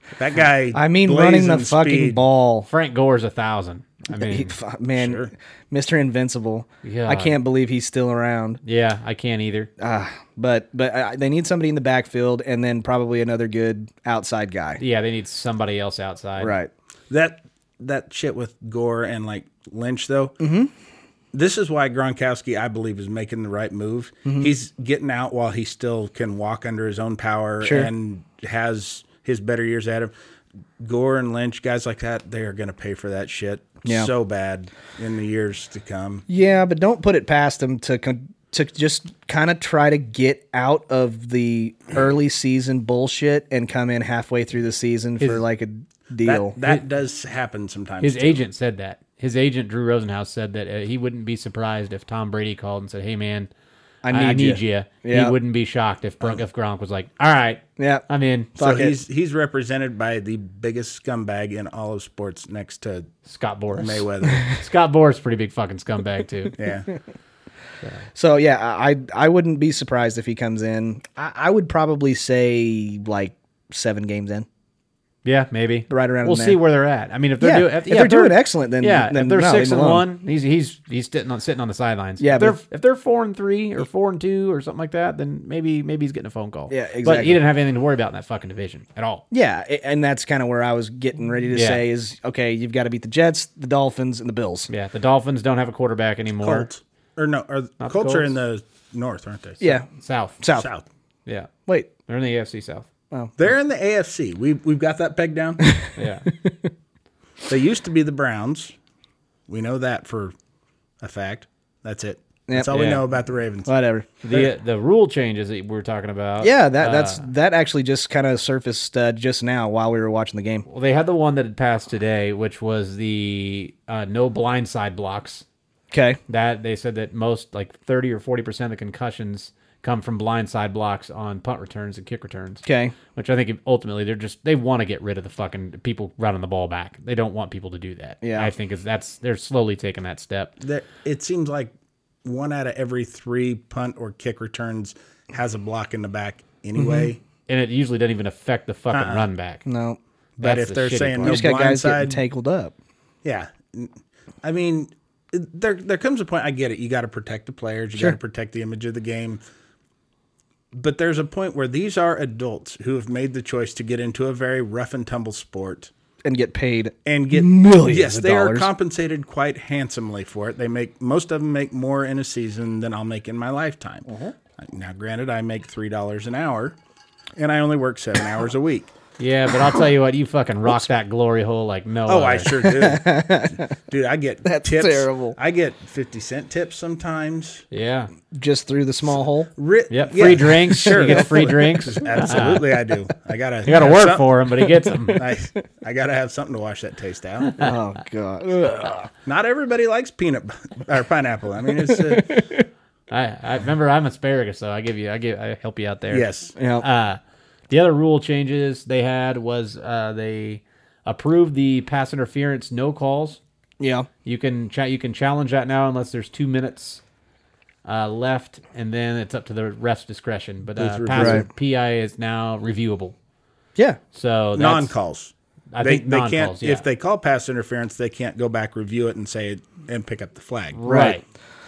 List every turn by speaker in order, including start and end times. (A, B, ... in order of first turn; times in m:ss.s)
0:00.2-0:02.2 A
0:00.7-0:02.7 B
0:02.7-0:04.5 C
0:04.1-0:08.6 B
0:04.9-0:05.3 A
0:06.8-0:07.4 C
0:08.6-0:09.7 C
0:09.8-0:14.8 B
0:14.8-0:16.6 C
0:16.4-0:16.7 B
0:17.1-0:20.3 A
0:20.4-0:20.7 B
0:21.3-0:30.1 A
0:27.6-0:27.9 B
0:30.8-0:36.2 A
0:33.8-0:34.1 B
0:36.3-0:46.6 B
0:46.2-0:48.4 A
0:48.0-0:53.5 C
0:54.0-0:55.4 B
0:54.1-0:58.6 C
0:57.8-0:58.0 B
0:58.6-0:59.0 B
0:58.6-1:03.1 A
1:03.3-1:06.6 C
1:03.8-1:04.5 A
1:06.6-1:06.9 A
1:08.2-1:14.5 B
1:15.2-1:29.2 C
1:15.9-1:16.6 B
1:17.4-1:20.0 B
1:22.2-1:22.6 B
1:26.7-1:27.4 B
1:29.3-1:34.7 B
1:31.5-1:31.8 C
1:34.7-1:36.7 C
1:36.4-1:39.8 A
1:37.8-1:38.3 C
1:39.6-1:39.9 B
1:40.0-1:40.4 C
1:40.4-1:40.7 B
1:40.5-1:40.8 A
1:42.1-1:42.9 C
1:43.4-1:45.7 A
1:45.6-1:46.7 B
1:46.0-1:46.3 C
1:47.5-1:48.7 A
1:49.5-1:50.3 A
1:51.0-1:53.7 A
1:52.5-1:52.7 B
1:52.7-1:53.0 C
1:53.7-1:54.1 B
1:54.2-1:57.3 C
1:56.4-2:00.7 B
2:00.7-2:05.4 C
2:05.9-2:06.2 B
2:06.3-2:20.5 C
2:12.6-2:13.0 B
2:18.2-2:18.5 B
2:20.6-2:21.7 A
2:22.2-2:27.2 A
2:26.8-2:27.1 B
2:27.5-2:29.6 C
2:28.9-2:29.3 A
2:29.7-2:30.0 B
2:30.4-2:32.2 A
2:30.4-2:31.4 C
2:31.2-2:32.7 B
2:33.2-2:39.4 A
2:40.8-2:45.9 A
2:46.2-2:48.7 B
2:47.1-2:54.1 A
2:54.1-2:54.3 B
2:54.6-2:56.8 A
2:57.4-2:58.9 A
2:59.2-3:02.7 C
3:02.1-3:07.6 A
3:02.6-3:03.7 B
3:04.4-3:05.4 B
3:07.7-3:08.1 C
3:08.3-3:09.5 B
3:09.6-3:14.3 A
3:09.9-3:12.7 C
3:10.7-3:11.3 B
3:13.7-3:15.2 C
3:15.2-3:17.6 A
3:17.6-3:19.1 B
3:19.3-3:22.4 A
3:21.9-3:22.6 B
3:23.1-3:26.3 C
3:26.1-3:26.5 A
3:26.6-3:26.8 B
3:26.8-3:27.2 C
3:27.7-3:33.4 C
3:33.8-3:34.1 B
3:34.2-3:37.0 C
3:37.8-3:43.2 C
3:40.8-3:41.4 A
3:41.2-3:41.4 B
3:44.1-3:44.9 C
3:44.6-3:50.8 A
3:45.7-3:46.8 C
3:50.7-3:51.2 C
3:50.9-3:51.2 B